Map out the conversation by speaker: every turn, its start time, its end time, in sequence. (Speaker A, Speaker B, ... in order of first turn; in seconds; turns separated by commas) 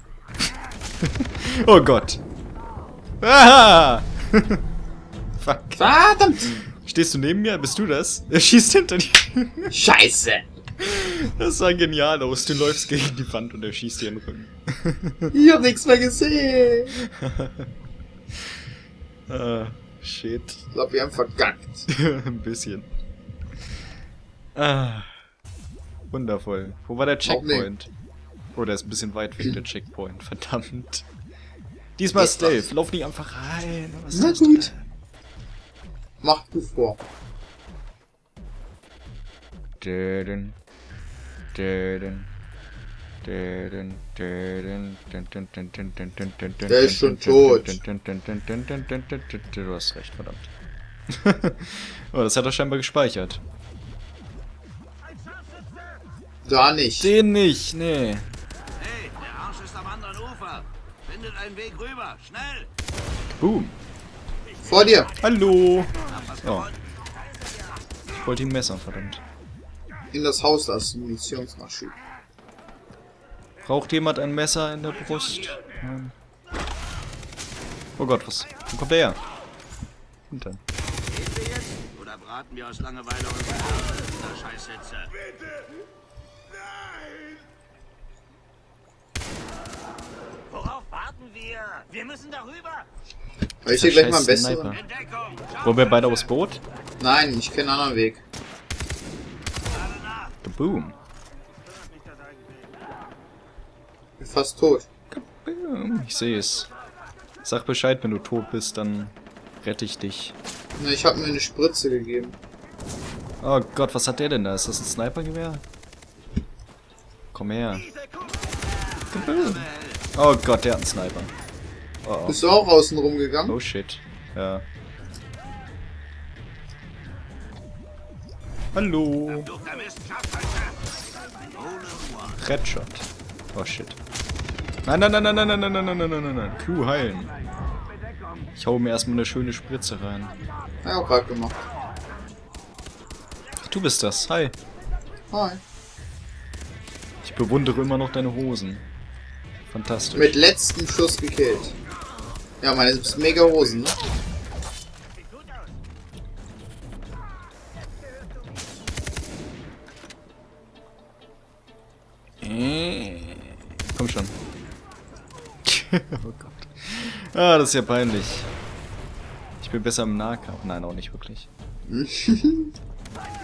Speaker A: 1.0-2.2, Speaker A: 3.2-4.6, Speaker A: 5.4-5.8, Speaker B: 5.8-6.6, Speaker A: 6.5-9.7, Speaker B: 9.7-10.5, Speaker A: 10.8-15.3, Speaker B: 15.3-16.9, Speaker A: 17.0-17.7, Speaker A: 19.3-20.6, Speaker B: 20.7-21.9, Speaker A: 21.9-22.9, Speaker A: 24.6-25.1, Speaker A: 26.1-27.9, Speaker B: 27.2-27.7, Speaker A: 28.5-31.0, Speaker A: 32.0-34.8, Speaker B: 32.1-32.7, Speaker B: 34.1-34.7, Speaker B: 36.2-37.0, Speaker A: 39.8-40.6, Speaker A: 41.5-42.3, Speaker A: 43.2-50.5, Speaker B: 46.7-47.7, Speaker A: 51.1-53.4, Speaker B: 56.4-57.1, Speaker A: 57.0-58.3, Speaker C: 59.0-62.5, Speaker A: 63.3-63.8, Speaker B: 64.6-65.1, Speaker A: 65.2-66.7, Speaker A: 68.1-69.2, Speaker B: 70.1-71.9, Speaker A: 73.6-76.1, Speaker A: 78.0-79.2, Speaker A: 80.3-80.6, Speaker C: 81.9-83.6, Speaker C: 84.4-84.8, Speaker C: 90.7-92.7, Speaker B: 93.6-94.8, Speaker A: 93.7-94.8, Speaker A: 95.6-96.6, Speaker B: 97.0-98.2, Speaker A: 100.4-101.0, Speaker B: 104.2-104.9, Speaker A: 105.1-106.7, Speaker A: 107.4-110.3, Speaker B: 110.8-112.4, Speaker A: 113.4-115.6, Speaker A: 117.3-117.9, Speaker A: 119.1-121.3, Speaker A: 122.0-122.4, Speaker B: 122.3-123.6, Speaker A: 123.5-124.6, Speaker A: 128.7-129.5, Speaker A: 132.3-134.0, Speaker A: 134.8-137.3, Speaker A: 138.6-140.3, Speaker B: 140.8-141.6, Speaker A: 143.6-144.6, Speaker B: 145.3-145.6, Speaker A: 147.2-148.8, Speaker A: 149.7-150.3, Speaker B: 150.1-151.8, Speaker B: 152.6-154.0, Speaker A: 162.4-164.3, Speaker A: 165.6-168.5, Speaker A: 169.6-171.5, Speaker B: 171.9-172.7